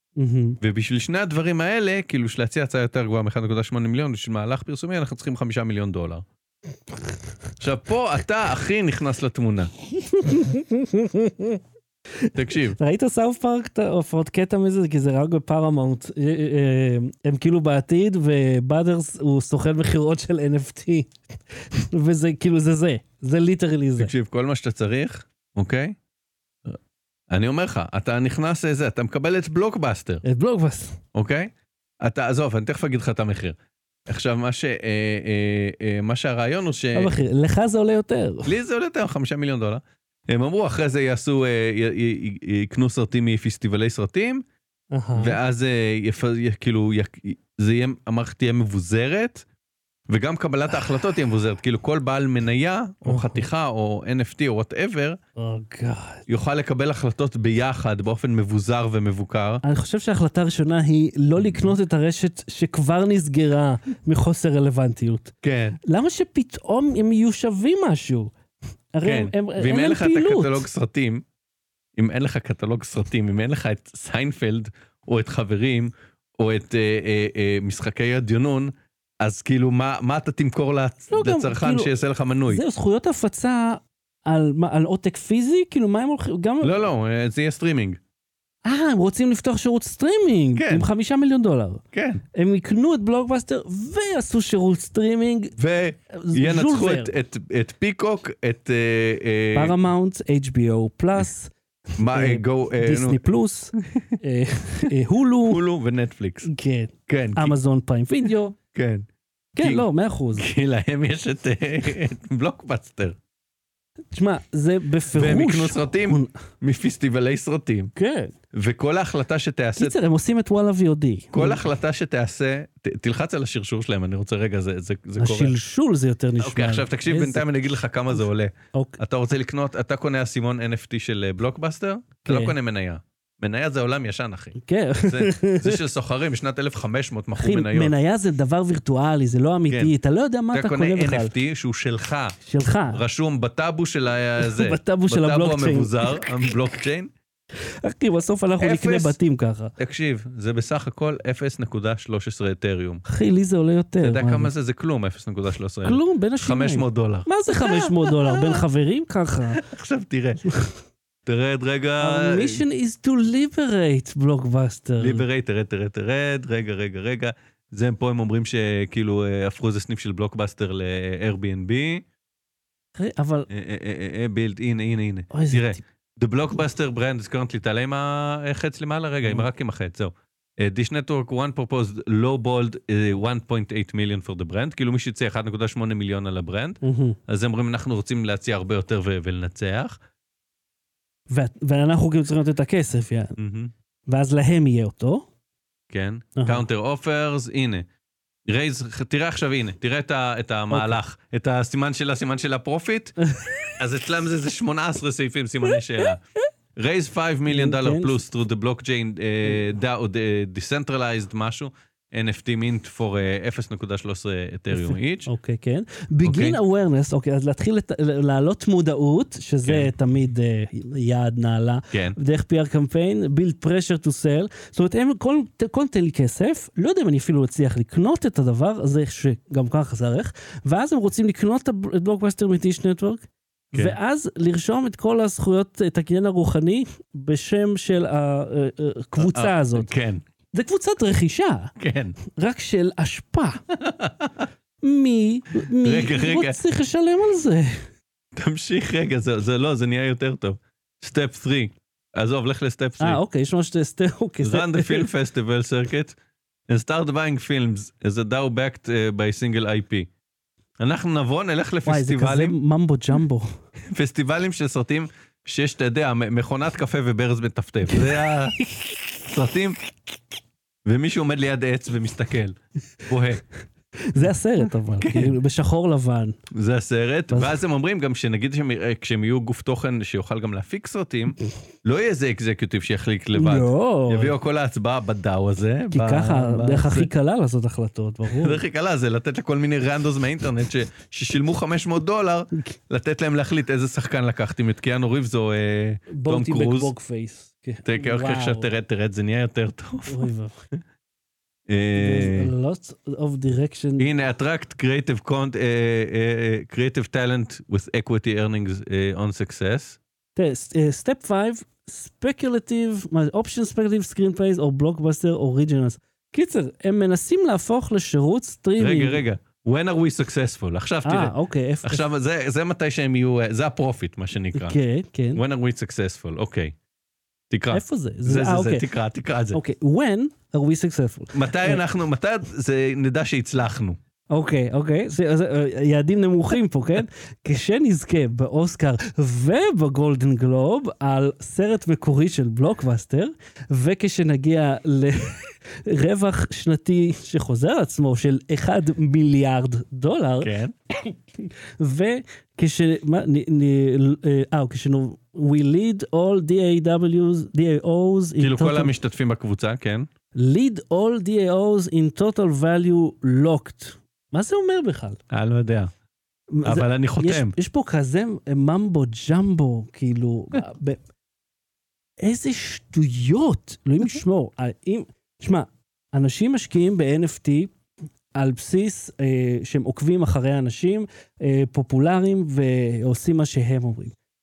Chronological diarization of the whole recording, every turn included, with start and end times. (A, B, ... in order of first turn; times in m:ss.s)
0:00.2-0:00.6 A
0:00.6-0:06.2 B
0:07.6-0:09.7 B
0:10.0-0:11.6 A
0:12.2-0:24.1 A
0:12.3-0:12.8 B
0:24.0-0:26.0 B
0:27.3-0:30.2 B
0:30.2-0:31.0 A
0:31.1-0:33.6 B
0:34.1-0:37.1 B
0:36.9-0:38.5 A
0:38.4-0:44.4 B
0:44.9-0:45.4 A
0:45.2-0:49.4 B
0:50.1-0:55.2 B
0:53.0-0:53.4 A
0:55.4-0:56.2 A
0:56.3-0:59.6 B
0:59.6-1:08.3 A
1:01.4-1:01.8 B
1:05.4-1:05.8 B
1:08.9-1:10.6 A
1:09.0-1:11.2 B
1:12.0-1:22.6 B
1:21.1-1:21.9 A
1:22.5-1:26.8 A
1:26.6-1:28.0 B
1:28.6-1:31.8 A
1:30.5-1:30.8 B
1:31.9-1:32.2 B
1:32.3-1:35.5 A
1:35.6-1:39.7 B
1:36.1-1:37.1 A
1:39.5-1:45.6 A
1:42.0-1:43.2 B
1:45.4-1:46.5 B
1:46.4-1:48.6 A
1:47.1-1:47.5 B
1:48.7-1:49.0 B
1:49.6-1:50.5 A
1:49.6-1:53.2 B
1:54.1-1:56.3 A
1:55.1-1:57.9 B
1:58.0-1:58.3 A
1:58.5-2:00.0 B
1:59.8-2:01.6 A
2:01.3-2:05.6 B
2:05.2-2:07.4 A
2:06.4-2:17.9 B
2:08.7-2:09.0 A
2:12.2-2:12.5 A
2:14.6-2:15.8 A
2:17.4-2:21.3 A
2:19.7-2:19.9 B
2:20.5-2:22.4 B
2:22.4-2:23.0 A
2:22.9-2:27.1 B
2:24.4-2:26.4 A
2:27.8-2:29.7 A
2:28.6-2:29.2 B
2:29.8-2:33.0 B
2:33.0-2:34.5 A
2:34.0-2:38.6 B
2:35.8-2:39.6 A
2:39.5-2:40.4 B
2:40.4-2:40.7 A
2:41.2-2:42.6 B
2:42.0-2:45.2 A
2:45.0-2:52.0 B
2:53.0-2:53.5 A
2:53.5-3:10.0 B
2:55.3-2:55.8 A
3:06.8-3:07.2 A
3:11.3-3:13.4 A
3:13.4-3:13.7 B
3:14.1-3:15.3 A
3:15.9-3:17.8 B
3:16.4-3:16.6 A
3:18.5-3:23.2 B
3:20.7-3:21.0 A
3:23.2-3:23.7 A
3:23.7-3:26.2 B
3:26.8-3:35.3 B
3:27.5-3:28.2 A
3:34.7-3:59.9 A
3:36.2-3:36.6 B
3:39.6-3:39.9 B
3:41.9-3:42.2 B
3:59.2-4:00.2 B
4:00.5-4:01.7 A
4:01.8-4:02.2 B
4:02.3-4:03.6 A
4:03.8-4:04.4 B
4:04.8-4:07.8 A
4:05.8-4:06.6 B
4:08.4-4:13.2 B
4:13.0-4:15.1 A
4:14.4-4:16.2 B
4:16.7-4:20.1 B
4:20.8-4:22.6 B
4:21.8-4:23.5 A
4:23.9-4:28.6 B
4:29.3-4:29.8 B
4:30.8-4:33.4 B
4:34.1-4:36.4 A
4:35.0-4:35.4 B
4:36.5-4:47.1 B
4:37.3-4:37.6 A
4:43.3-4:44.3 A
4:45.9-4:48.6 A
4:48.3-4:56.9 B
4:56.1-4:58.7 A
4:57.8-5:00.3 B
5:00.1-5:00.5 A
5:01.7-5:02.5 B
5:02.0-5:04.1 A
5:04.0-5:10.0 B
5:10.4-5:19.2 A
5:18.8-5:21.3 B
5:21.0-5:22.0 A
5:21.8-5:24.8 B
5:24.5-5:25.4 A
5:25.3-5:26.7 B
5:27.5-5:29.6 B
5:27.7-5:28.8 A
5:29.5-5:31.8 A
5:31.3-5:34.0 B
5:34.3-5:58.9 A
5:50.4-5:50.7 B
5:58.4-6:00.1 B
6:00.4-6:05.2 A
6:05.3-6:05.9 B
6:06.5-6:11.0 A
6:06.6-6:07.5 B
6:12.2-6:17.7 A
6:18.3-6:24.1 A